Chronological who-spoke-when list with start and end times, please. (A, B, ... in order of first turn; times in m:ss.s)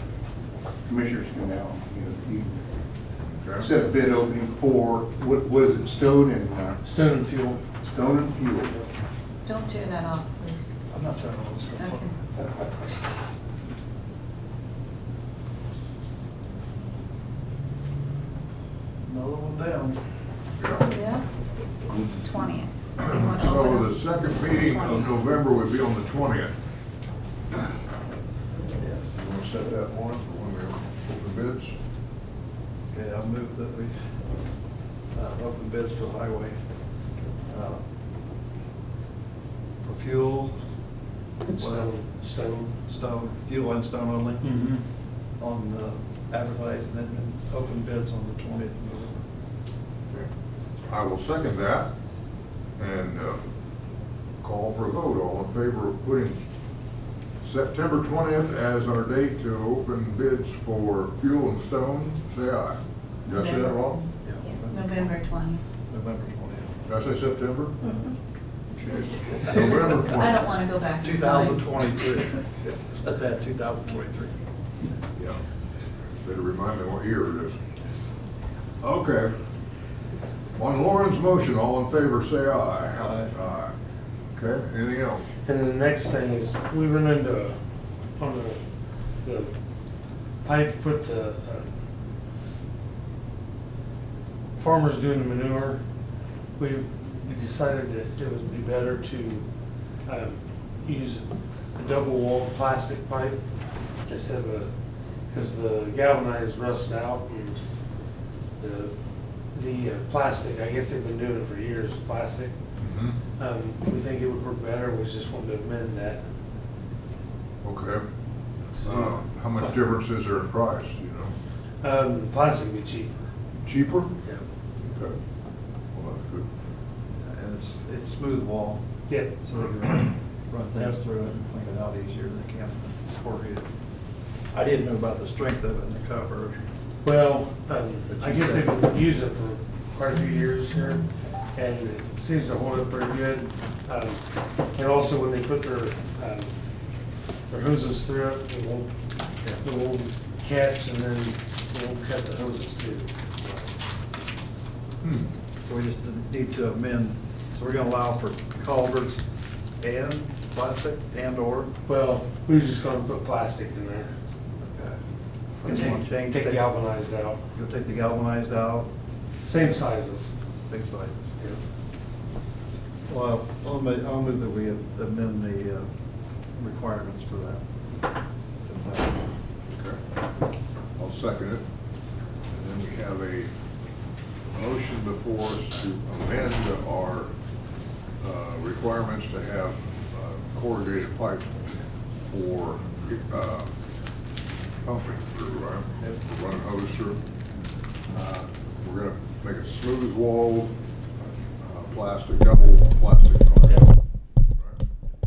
0:00.8-0:02.6 A
0:03.2-0:03.7 B
0:03.6-0:06.8 A
0:06.8-0:07.6 C
0:07.8-0:08.8 A
0:09.4-0:10.7 D
0:10.9-0:12.2 E
0:11.8-0:12.2 D
0:19.0-0:20.0 E
0:20.6-0:20.8 B
0:20.8-0:21.2 D
0:22.2-0:24.0 D
0:23.0-0:26.5 B
0:24.6-0:25.1 D
0:28.8-0:29.1 E
0:29.1-0:31.8 B
0:32.9-0:34.0 E
0:35.1-0:36.6 E
0:37.5-0:37.8 E
0:39.8-0:40.6 E
0:41.4-0:42.7 C
0:41.6-0:42.0 E
0:42.9-0:44.4 E
0:44.4-0:44.8 C
0:45.4-0:49.2 E
0:50.9-0:51.9 B
0:52.8-0:53.4 B
0:54.4-0:56.4 B
0:57.4-1:04.0 B
1:03.3-1:05.6 D
1:04.2-1:05.0 E
1:05.9-1:06.8 E
1:06.9-1:08.0 B
1:08.8-1:10.4 B
1:10.0-1:11.7 D
1:11.0-1:14.4 E
1:16.2-1:17.6 B
1:18.8-1:19.3 B
1:20.6-1:23.7 B
1:23.0-1:23.3 E
1:24.3-1:25.3 B
1:25.4-1:27.6 C
1:28.2-1:28.6 C
1:29.2-1:29.5 C
1:30.4-1:31.7 C
1:34.6-1:35.8 C
1:36.6-1:39.4 C
1:40.1-1:43.4 C
1:44.1-1:44.7 C
1:45.3-1:47.6 C
1:48.6-1:48.9 C
1:49.5-1:52.5 C
1:52.8-1:53.2 B
1:53.4-1:56.2 C
1:57.6-1:58.0 B
1:58.8-1:59.1 C
1:58.8-2:01.3 B
2:01.8-2:03.1 C
2:03.6-2:04.2 B
2:04.8-2:05.2 B
2:05.9-2:06.5 B
2:07.2-2:08.8 E
2:09.4-2:13.7 E
2:14.5-2:16.6 E
2:17.0-2:24.2 C
2:18.1-2:18.7 E
2:24.7-2:26.5 C
2:27.5-2:28.9 C
2:29.5-2:33.6 C
2:35.0-2:35.3 B
2:35.6-2:39.2 E
2:39.8-2:41.7 E
2:41.9-2:44.1 C
2:44.6-2:45.0 E
2:45.6-2:46.7 E
2:45.6-2:47.4 C
2:47.5-2:48.9 E
2:49.4-2:50.3 C
2:50.6-2:51.4 E
2:53.1-2:55.9 E
2:56.6-2:57.6 E
2:58.6-2:59.3 E
2:59.7-3:00.0 B
3:01.0-3:01.6 B
3:02.5-3:03.5 B
3:04.5-3:07.3 B
3:08.2-3:11.8 B
3:12.3-3:13.7 B
3:14.8-3:17.2 B
3:18.1-3:20.8 B
3:21.6-3:23.9 B
3:24.6-3:24.8 B